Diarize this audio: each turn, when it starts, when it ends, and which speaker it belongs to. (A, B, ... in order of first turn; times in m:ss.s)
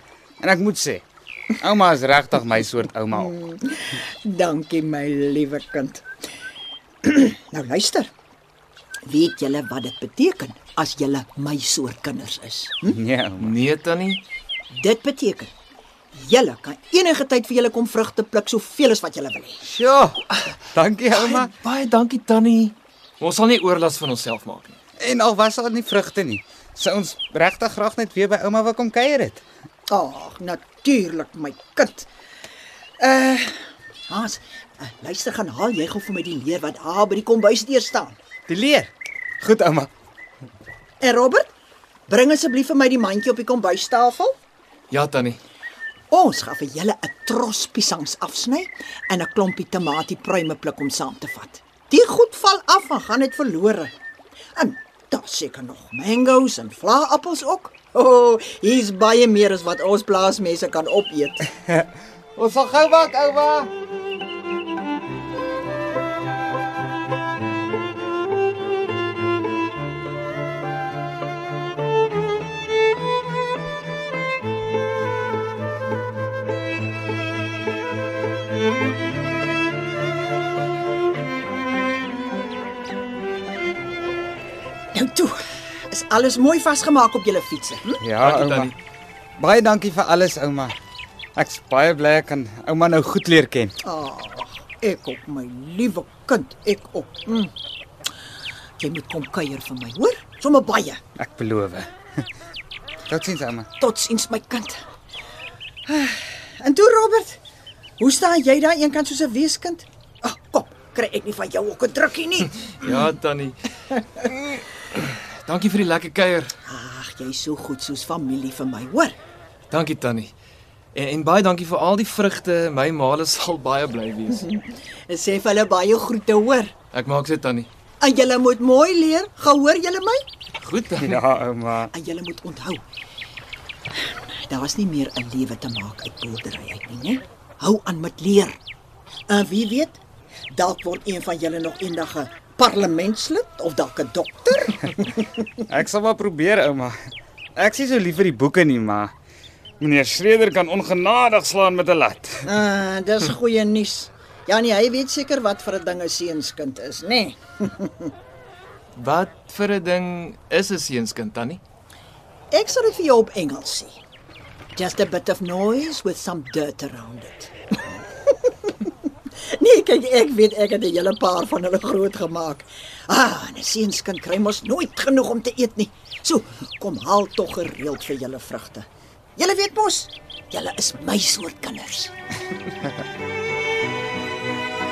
0:00.4-0:01.0 A
0:01.6-0:03.4 A
0:03.1-0:06.0 B
0:07.0-0:08.1 B
0:09.1-0:13.0 B
0:12.9-0:13.6 A
0:13.4-0:14.2 C
0:14.7-0:15.5 B
0:16.1-0:19.6 B
0:19.6-0:21.5 A
0:21.1-0:24.8 C
0:25.0-0:29.4 A
0:29.9-0:32.1 B
0:33.0-0:38.2 B
0:38.5-0:39.9 A
0:41.0-0:41.5 B
0:42.1-0:44.4 B
0:44.9-0:45.4 C
0:46.1-0:53.9 B
0:54.6-1:01.5 B
1:01.7-1:03.7 A
1:24.9-1:25.4 B
1:25.9-1:28.0 B
1:28.0-1:28.7 A
1:28.2-1:28.7 C
1:29.4-1:30.8 A
1:31.4-1:33.7 A
1:33.8-1:37.5 B
1:38.8-1:41.0 B
1:41.2-1:41.9 A
1:43.1-1:43.7 A
1:43.8-1:44.8 B
1:45.9-1:47.4 B
1:48.0-1:52.7 B
1:52.8-1:56.5 C
1:56.7-1:59.2 B
1:59.7-2:00.3 C
2:01.0-2:04.5 C
2:04.3-2:06.7 B
2:06.9-2:07.7 C
2:08.0-2:10.2 B
2:10.6-2:11.2 C
2:11.0-2:11.9 A
2:11.9-2:12.8 B
2:13.9-2:18.6 B
2:19.3-2:25.2 B
2:25.7-2:26.9 A
2:27.6-2:29.1 A
2:29.8-2:32.4 A
2:32.5-2:38.1 B
2:39.0-2:41.6 C
2:42.5-2:44.0 B
2:44.8-2:47.5 B
2:48.3-2:48.9 B
2:49.4-3:02.1 B